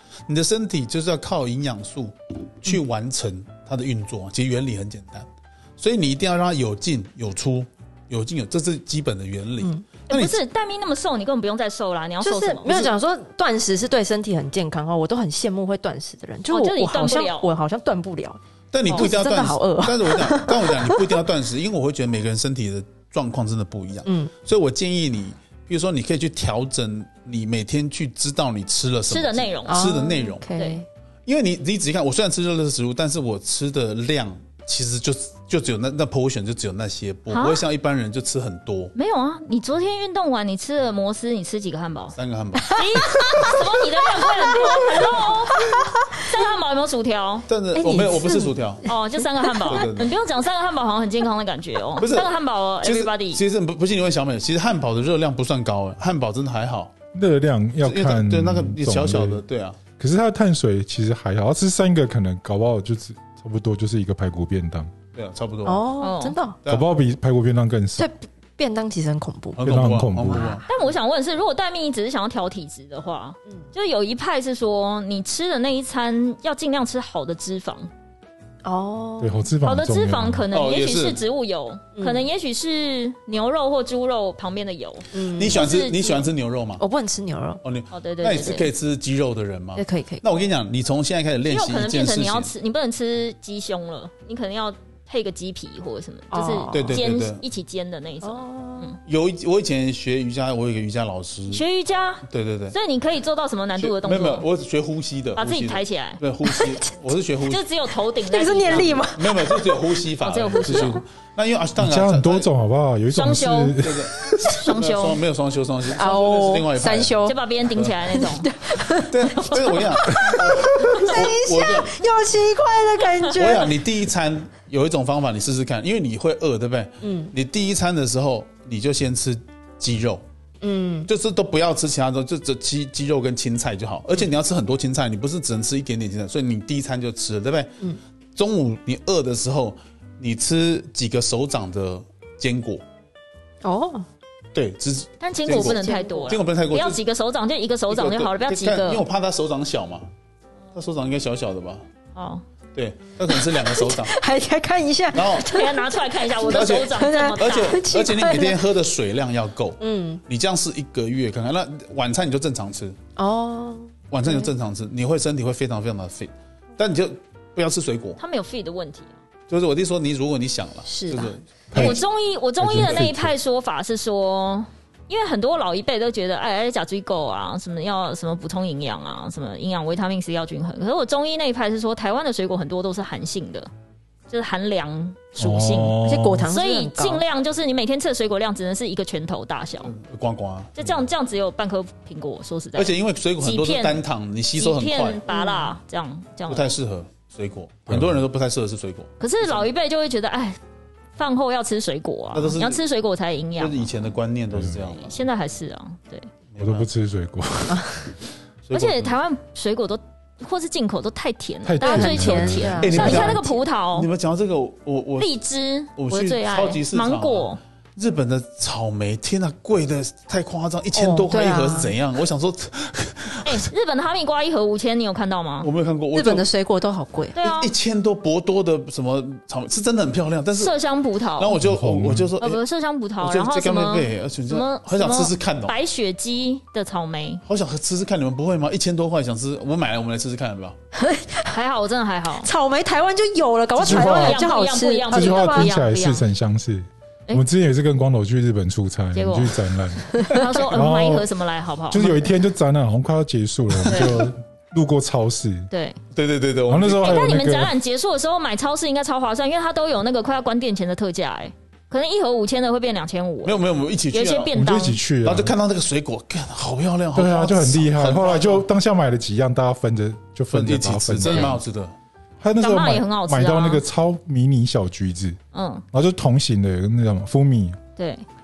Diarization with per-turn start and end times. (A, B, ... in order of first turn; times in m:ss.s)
0:00.3-0:10.4 A
0:10.1-0:12.9 B
0:12.2-0:21.2 C
0:16.5-0:17.5 B
0:18.7-0:30.4 A
0:24.0-0:24.3 C
0:29.1-0:29.9 B
0:29.7-0:30.8 C
0:30.5-0:30.8 B
0:31.2-0:38.9 A
0:37.3-0:37.6 B
0:38.9-0:42.2 B
0:42.1-0:42.8 A
0:42.6-0:46.4 C
0:42.7-0:47.4 B
0:47.5-0:48.8 A
0:47.7-0:48.9 C
0:48.8-0:53.4 B
0:49.4-0:49.8 C
0:49.6-0:50.1 A
0:52.0-0:56.9 A
0:57.1-0:59.4 D
0:57.8-0:59.8 A
1:00.0-1:04.9 D
1:05.1-1:05.9 A
1:05.6-1:06.6 C
1:06.0-1:06.4 B
1:06.6-1:06.9 A
1:06.7-1:08.1 D
1:08.0-1:09.7 C
1:09.6-1:10.6 A
1:09.6-1:10.6 D
1:10.3-1:10.6 C
1:10.7-1:17.9 B
1:18.6-1:19.4 C
1:19.2-1:20.4 D
1:19.6-1:26.3 B
1:20.5-1:21.2 A
1:22.0-1:22.2 C
1:25.1-1:25.7 C
1:25.4-1:26.8 A
1:26.8-1:27.6 C
1:27.6-1:32.5 A
1:27.9-1:28.7 B
1:29.8-1:30.2 C
1:31.5-1:39.0 B
1:36.3-1:37.1 C
1:36.7-1:37.4 A
1:38.2-1:38.9 C
1:39.0-1:41.6 A
1:41.5-1:44.4 B
1:42.3-1:42.8 A
1:43.8-1:47.6 A
1:45.4-1:46.2 B
1:46.4-1:46.8 C
1:47.4-1:49.0 B
1:48.2-1:49.9 C
1:48.6-1:52.5 A
1:50.2-1:51.0 B
1:51.8-1:54.1 D
1:53.1-1:53.8 B
1:53.8-1:57.2 A
1:54.5-1:55.2 B
1:55.9-1:57.4 C
1:57.2-1:58.5 B
1:58.0-2:03.8 C
1:58.9-2:02.0 A
1:59.4-1:59.8 B
2:03.3-2:10.2 A
2:07.0-2:07.3 C
2:10.6-2:11.1 C
2:11.0-2:17.8 A
2:18.4-2:22.8 A
2:23.6-2:24.0 C
2:24.5-2:27.0 A
2:25.2-2:29.0 B
2:25.5-2:26.4 C
2:27.9-2:30.1 A
2:30.7-2:31.8 A
2:32.1-2:32.4 B
2:32.7-2:34.2 A
2:33.3-2:38.6 C
2:35.1-2:35.7 A
2:35.4-2:37.8 B
2:36.4-2:43.0 A
2:39.8-2:40.2 C
2:43.2-2:44.5 C
2:44.1-2:48.2 A
2:48.2-2:49.1 B
2:49.5-2:52.0 A
2:50.9-2:51.3 C
2:51.7-2:52.0 D
2:51.7-3:03.7 B
2:52.6-2:53.3 D
2:52.6-2:53.2 A
3:04.3-3:09.9 B
3:05.4-3:06.5 D
3:06.0-3:07.2 C
3:09.8-3:10.9 A
3:10.8-3:14.0 B
3:12.8-3:15.2 A
3:14.6-3:16.7 B
3:15.3-3:15.7 C
3:16.5-3:19.7 A
3:17.9-3:18.2 D
3:19.2-3:20.6 B
3:21.2-3:23.9 B
3:22.3-3:22.8 A
3:23.6-3:25.2 A
3:24.5-3:24.9 D
3:24.9-3:26.3 B
3:26.5-3:26.9 A
3:26.6-3:28.1 D
3:27.7-3:28.0 C
3:28.6-3:29.2 A
3:28.7-3:34.1 B
3:31.6-3:33.3 D
3:31.8-3:33.6 C
3:32.8-3:33.4 A
3:33.9-3:35.3 A
3:35.2-3:37.6 B
3:36.0-3:43.7 A
3:40.9-3:41.9 C
3:43.4-3:45.7 B
3:45.6-3:46.5 A
3:46.1-3:47.4 C
3:47.3-3:47.7 B
3:47.4-3:50.7 A
3:50.6-3:51.6 B
3:51.4-3:52.6 A
3:51.6-3:52.3 D
3:52.4-3:57.4 B
3:53.2-3:55.7 A
3:57.4-4:00.8 A
4:00.9-4:01.6 C
4:01.5-4:02.5 B
4:02.4-4:05.7 C
4:03.8-4:06.2 B
4:03.8-4:04.5 D
4:05.1-4:11.3 D
4:09.1-4:09.6 B
4:10.2-4:10.4 C
4:10.2-4:12.3 B
4:11.9-4:15.7 D
4:13.9-4:14.2 B
4:15.7-4:16.0 B
4:16.1-4:17.4 A
4:16.7-4:17.7 D
4:17.0-4:25.0 B
4:23.4-4:24.5 A
4:24.5-4:25.5 D
4:25.2-4:28.6 A
4:27.1-4:31.6 D
4:30.5-4:31.9 A
4:31.2-4:31.5 B
4:32.4-4:35.4 D
4:32.6-4:33.8 B
4:35.5-4:35.8 B
4:35.9-4:37.8 D
4:38.0-4:38.2 B